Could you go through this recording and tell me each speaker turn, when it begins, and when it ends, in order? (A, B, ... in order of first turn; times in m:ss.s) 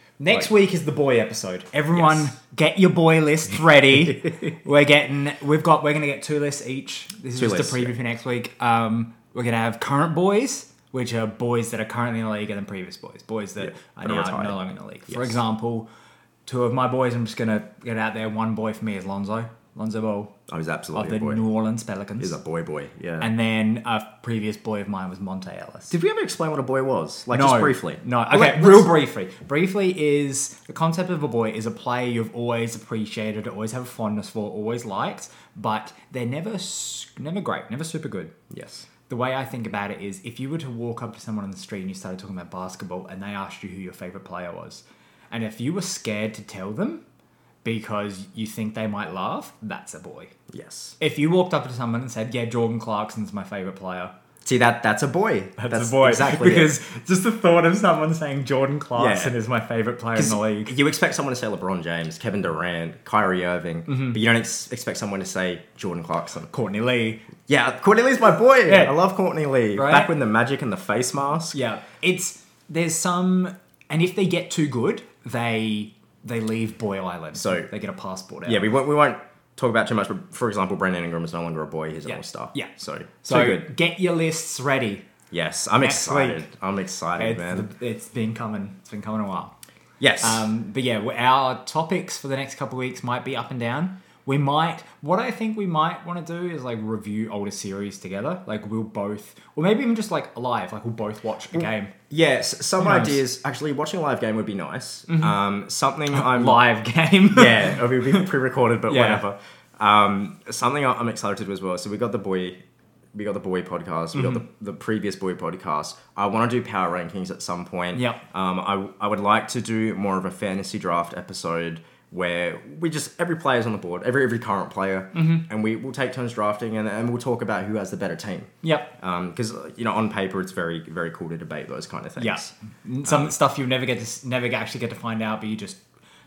0:00.2-0:15.9 A
0:01.9-0:02.3 B
0:07.3-0:07.9 B
0:13.6-0:15.4 B
0:16.5-0:20.3 A
0:20.5-0:21.4 B
0:20.9-0:22.4 A
0:22.2-0:23.3 B
0:23.2-0:25.9 A
0:25.9-0:28.9 B
0:27.3-0:38.3 A
0:38.5-0:38.9 B
0:39.1-0:47.0 A
0:47.6-0:50.3 A
0:50.5-0:51.0 B
0:51.0-0:54.1 A
0:54.4-0:56.8 B
0:55.6-1:00.7 A
0:59.0-0:59.3 B
1:00.1-1:06.5 B
1:03.9-1:04.2 A
1:06.5-1:07.3 A
1:07.5-1:11.6 B
1:08.6-1:09.0 A
1:09.7-1:10.1 A
1:11.5-1:18.7 A
1:17.3-1:17.7 B
1:18.4-1:23.7 B
1:22.0-1:22.7 A
1:23.2-1:25.0 A
1:25.3-1:27.7 B
1:25.8-1:26.4 A
1:27.2-1:29.5 A
1:30.0-1:30.4 B
1:30.2-1:41.9 A
1:41.5-1:46.6 B
1:42.8-1:43.2 A
1:45.1-1:45.4 A
1:46.1-1:48.3 A
1:47.3-1:52.6 B
1:48.9-1:49.2 A
1:53.1-2:12.5 B
1:54.1-1:54.4 A
1:57.9-1:58.2 A
2:05.1-2:05.4 A
2:08.6-2:08.9 A
2:12.2-2:15.8 A
2:13.0-2:13.3 B